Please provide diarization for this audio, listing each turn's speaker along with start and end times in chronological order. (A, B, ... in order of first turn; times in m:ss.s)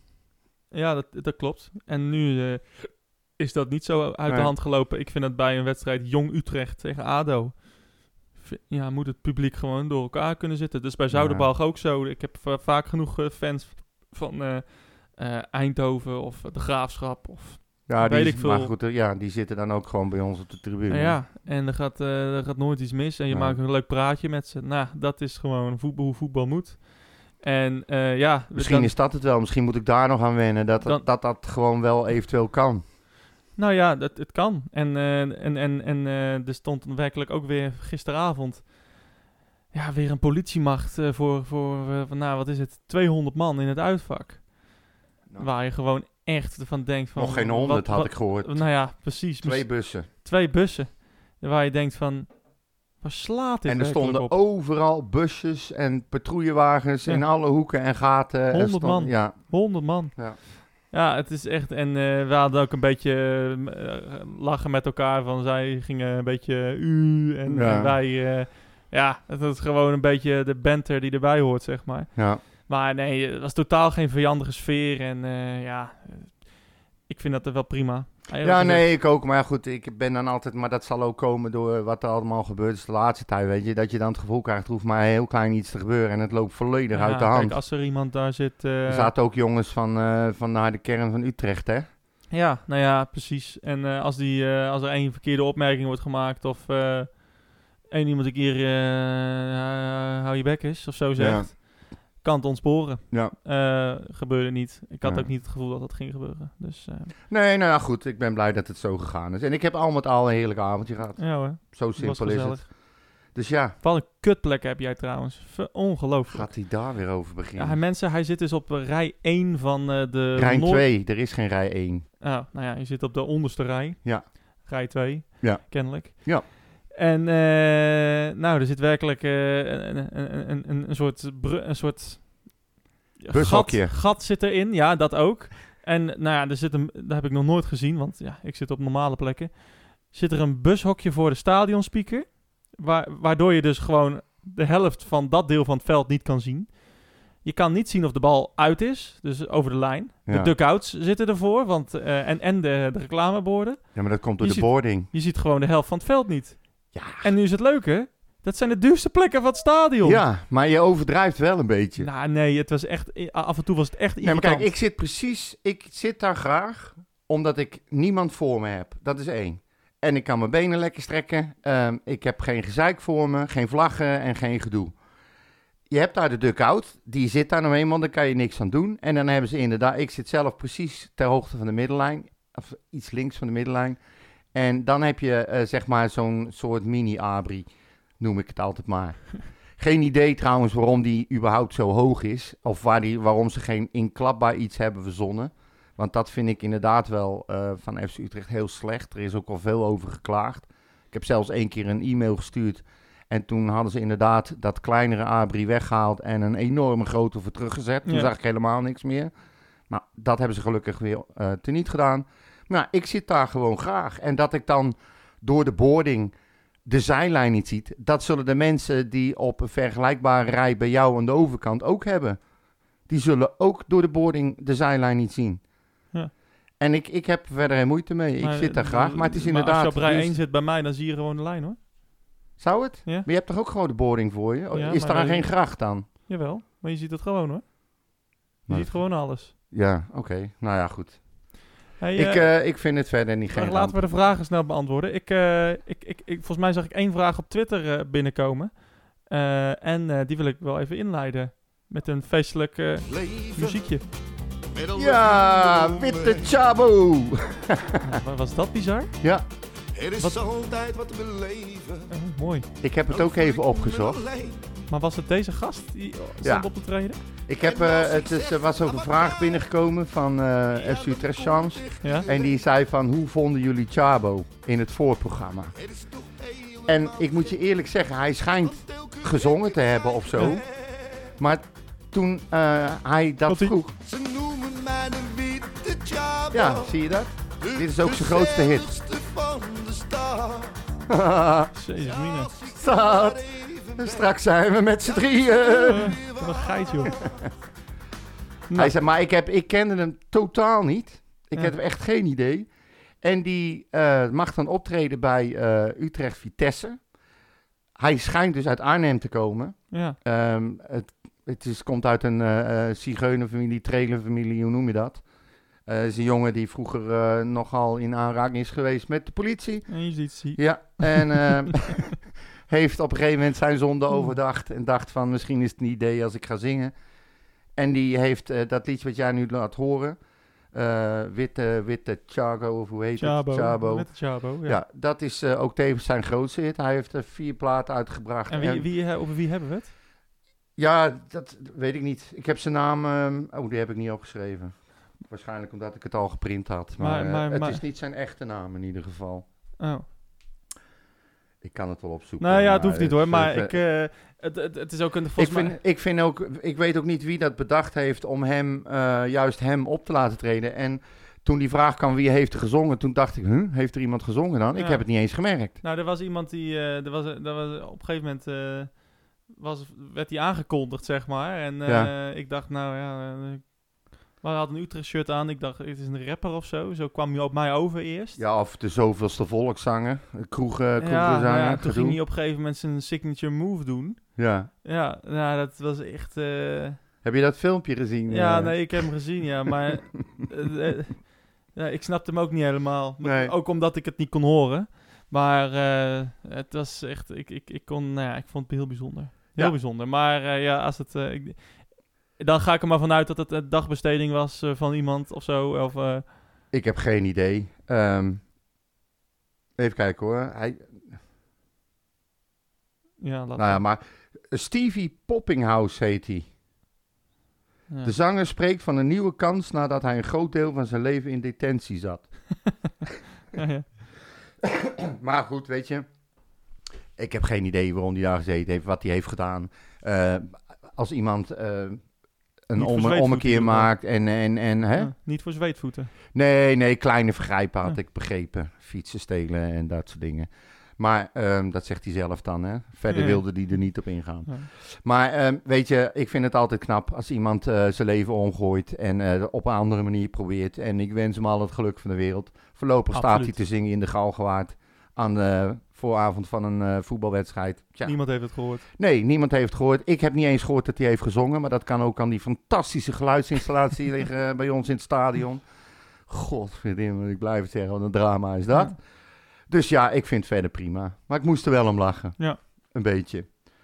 0:00.7-0:07.8 A
0:04.3-0:04.5 B
0:08.3-0:18.7 A
0:11.1-0:11.5 B
0:17.9-0:21.2 B
0:20.9-0:29.0 A
0:23.3-0:23.6 B
0:28.5-0:32.8 B
0:33.6-0:39.0 A
0:39.7-0:44.7 A
0:45.4-0:54.4 A
0:47.2-0:50.1 B
0:53.7-1:00.4 B
0:58.5-1:18.9 A
1:07.5-1:08.0 B
1:12.2-1:12.4 B
1:18.4-1:27.6 B
1:26.9-1:29.1 A
1:28.9-1:31.9 B
1:32.3-1:47.1 A
1:41.2-1:41.5 B
1:45.0-1:45.3 B
1:47.3-1:52.7 B
1:51.2-1:52.7 A
1:53.3-1:53.8 B
1:53.8-1:56.5 A
1:56.3-1:57.8 B
1:57.6-2:00.8 A
2:00.4-2:02.1 B
2:02.2-2:12.6 A
2:04.0-2:04.3 B
2:05.4-2:06.5 B
2:13.2-2:40.2 A
2:13.3-2:14.0 B
2:30.3-2:30.5 B
2:33.9-2:35.1 B
2:36.9-2:37.3 B
2:40.0-2:42.1 B
2:42.0-2:44.7 A
2:44.2-2:55.0 B
2:55.9-3:04.0 B
3:04.5-3:07.7 B
3:08.2-3:29.3 B
3:28.1-3:28.3 A
3:29.9-3:36.3 B
3:36.8-3:42.4 B
3:43.1-3:45.6 B
3:46.8-3:50.4 B
3:48.4-3:51.8 A
3:52.6-3:56.1 B
3:54.7-3:57.7 A
3:58.7-3:59.5 A
3:58.7-4:01.6 B
4:02.0-4:02.5 A
4:02.2-4:04.0 B
4:03.5-4:14.0 A
4:13.1-4:13.9 C
4:14.7-4:16.5 C
4:15.0-4:18.1 B
4:18.0-4:19.1 A
4:20.0-4:22.1 C
4:22.1-4:22.7 A
4:22.8-4:24.2 B
4:23.1-4:24.7 C
4:24.9-4:27.2 A
4:26.4-4:26.7 B
4:27.5-4:35.7 B
4:27.6-4:29.7 C
4:30.7-4:32.6 C
4:32.0-4:32.3 A
4:35.8-4:37.6 C
4:36.9-4:40.6 B
4:38.6-4:41.3 C
4:40.4-4:40.6 A
4:41.4-4:43.9 B
4:43.5-4:43.8 A
4:44.0-4:46.9 C
4:46.5-4:48.9 B
4:47.6-4:50.9 C
4:51.1-4:51.7 B
4:51.7-4:52.5 A
4:52.0-4:54.3 C
4:52.7-4:53.4 B
4:54.0-4:56.2 B
4:55.0-4:57.5 C
4:55.8-4:57.2 A
4:58.7-4:58.9 A
4:58.8-5:02.7 B
5:03.2-5:07.0 B
5:08.0-5:15.2 B
5:09.9-5:10.2 A
5:15.9-5:26.9 B
5:19.9-5:21.8 A
5:27.8-5:30.2 B
5:30.7-5:38.9 B
5:33.2-5:34.8 A
5:38.5-5:39.9 A
5:40.8-5:49.4 B
5:47.0-5:47.8 A
5:49.8-5:50.0 A
5:51.6-5:53.8 B
5:52.4-5:55.8 A
5:55.4-6:05.8 B
6:04.8-6:05.0 A
6:05.8-6:18.4 A
6:11.9-6:12.1 B
6:18.4-6:22.2 B
6:21.0-6:24.3 A
6:24.4-6:24.7 B
6:24.8-6:27.0 A
6:27.2-6:29.0 B
6:28.3-6:46.3 A
6:33.2-6:33.5 B
6:46.7-6:48.4 B
6:49.8-6:51.0 B
6:53.2-6:53.8 A
6:53.6-6:56.5 B
6:57.9-6:58.1 A
6:58.0-7:02.5 B
7:03.5-7:03.9 A
7:04.6-7:06.1 B
7:07.2-7:12.1 B
7:12.7-7:15.1 B
7:12.8-7:13.9 A
7:15.0-7:16.1 A
7:16.3-7:45.7 B
7:23.1-7:23.4 A
7:33.1-7:33.6 A
7:38.0-7:38.8 A
7:46.3-7:49.0 B
7:49.7-7:53.6 B